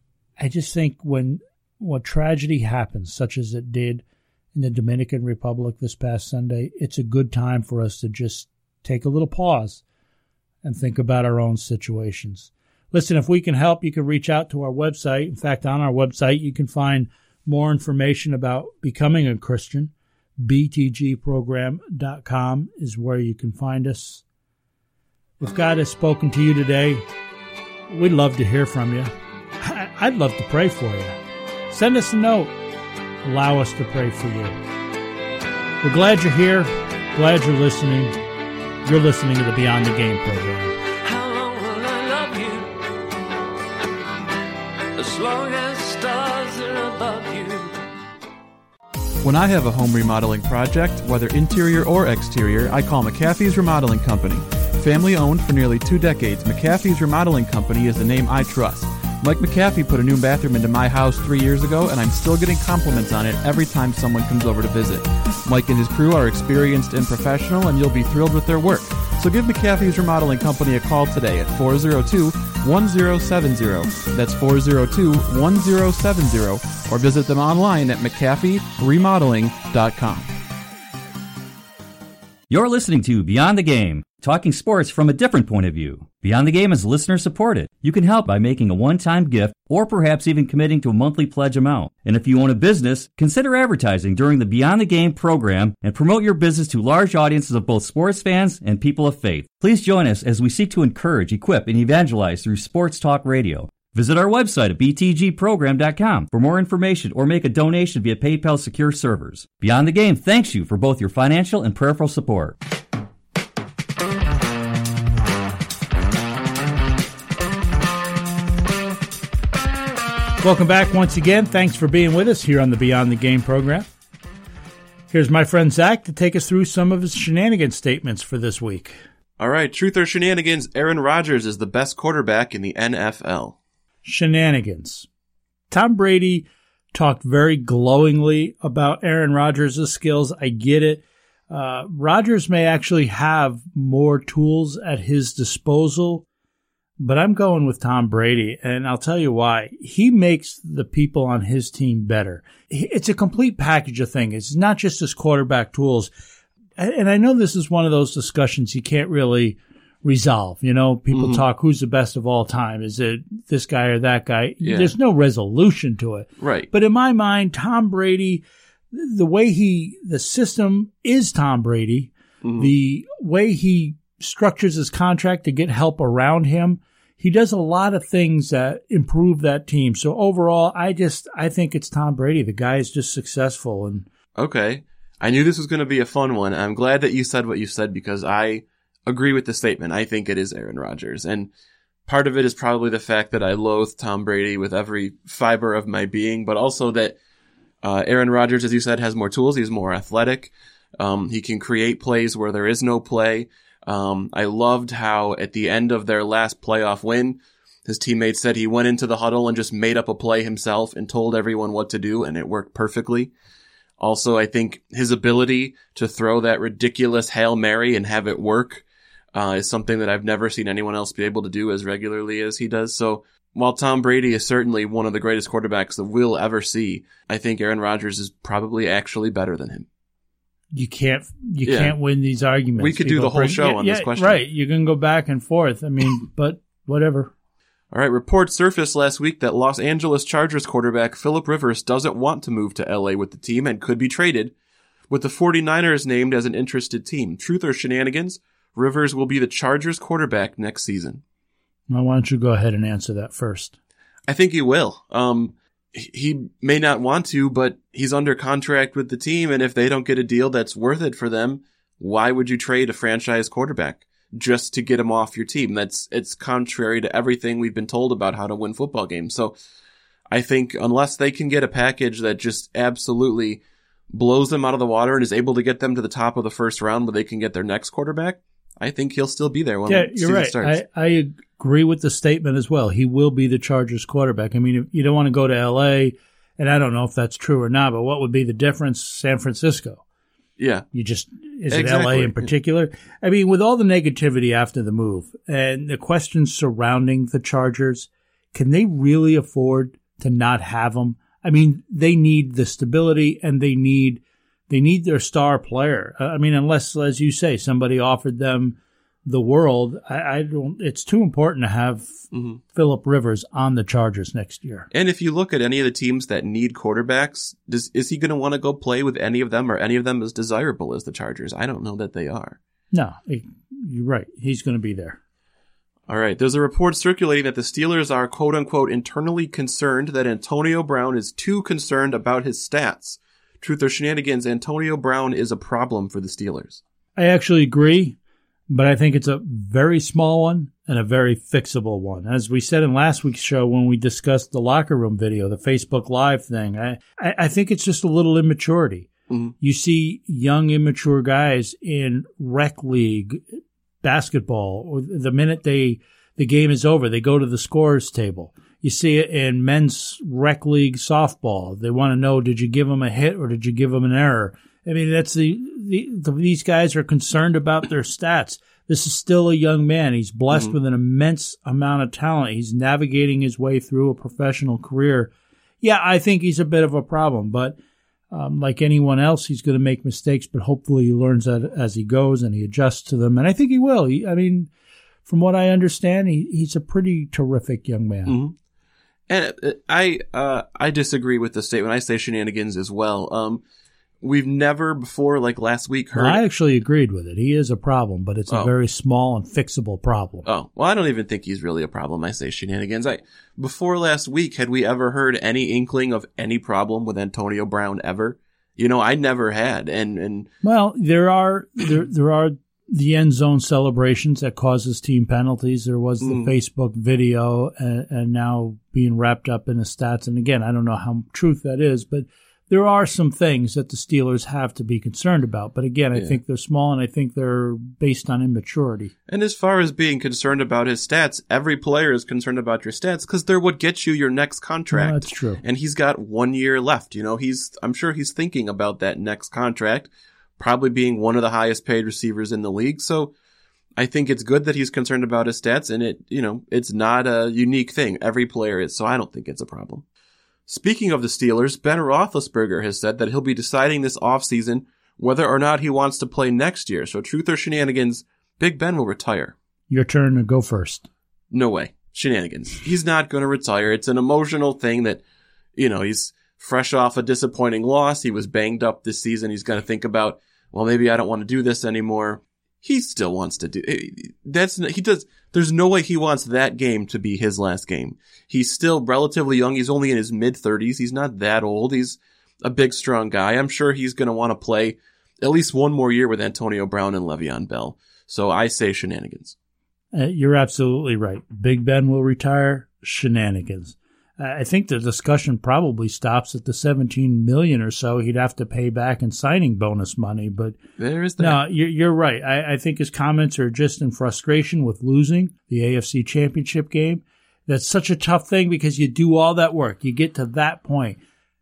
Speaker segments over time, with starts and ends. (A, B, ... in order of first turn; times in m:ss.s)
0:00.4-0:09.8 A
0:10.6-0:24.2 A
0:25.4-0:27.1 A
0:27.9-0:31.2 A
0:31.7-0:32.5 A
0:33.2-0:34.6 A
0:35.8-0:38.2 A
0:38.8-0:40.8 A
0:41.0-0:42.8 B
0:45.0-0:47.7 B
0:49.2-1:20.3 C
1:22.5-1:52.6 D
2:00.4-2:03.9 A
2:05.1-2:09.0 A
2:09.4-2:13.6 E
2:14.0-2:15.1 A
2:15.7-2:26.2 A
2:27.0-2:36.1 A
2:36.8-3:04.1 A
2:41.1-2:41.4 E
2:44.6-2:44.9 E
2:46.4-2:46.7 E
2:52.4-2:52.7 E
3:04.4-3:11.5 E
3:12.1-3:17.2 E
3:17.8-3:33.3 E
3:34.0-3:49.9 E
3:50.7-3:57.3 A
3:51.6-3:52.0 E
3:52.8-3:54.4 E
3:57.9-4:04.5 E
4:05.1-4:11.2 E
4:11.9-4:13.8 A
4:14.3-4:29.6 E
4:30.3-4:40.8 E
4:39.9-4:50.0 A
4:50.6-4:50.9 E
4:50.9-5:14.9 A
4:51.7-4:52.5 E
5:12.3-5:12.6 E
5:14.9-5:22.6 E
5:22.9-5:25.2 A
5:26.1-5:36.8 E
5:37.2-5:38.2 A
5:38.7-5:49.1 A
5:49.6-6:15.3 A
6:15.8-6:17.8 A
6:18.3-6:24.7 A
6:25.3-6:28.4 A
6:28.3-6:28.6 E
6:29.3-6:33.6 E
6:34.2-6:36.4 E
6:36.1-6:40.5 A
6:40.4-6:50.5 E
6:50.6-7:09.1 A
6:56.2-6:56.5 E
7:09.3-7:23.3 E
7:14.9-7:15.6 A
7:24.0-7:30.0 E
7:30.7-7:39.5 E
7:39.9-7:41.1 A
7:41.5-7:45.2 E
7:45.8-8:09.6 E
8:10.1-8:20.8 A
8:21.0-8:21.6 E
8:21.4-8:31.2 A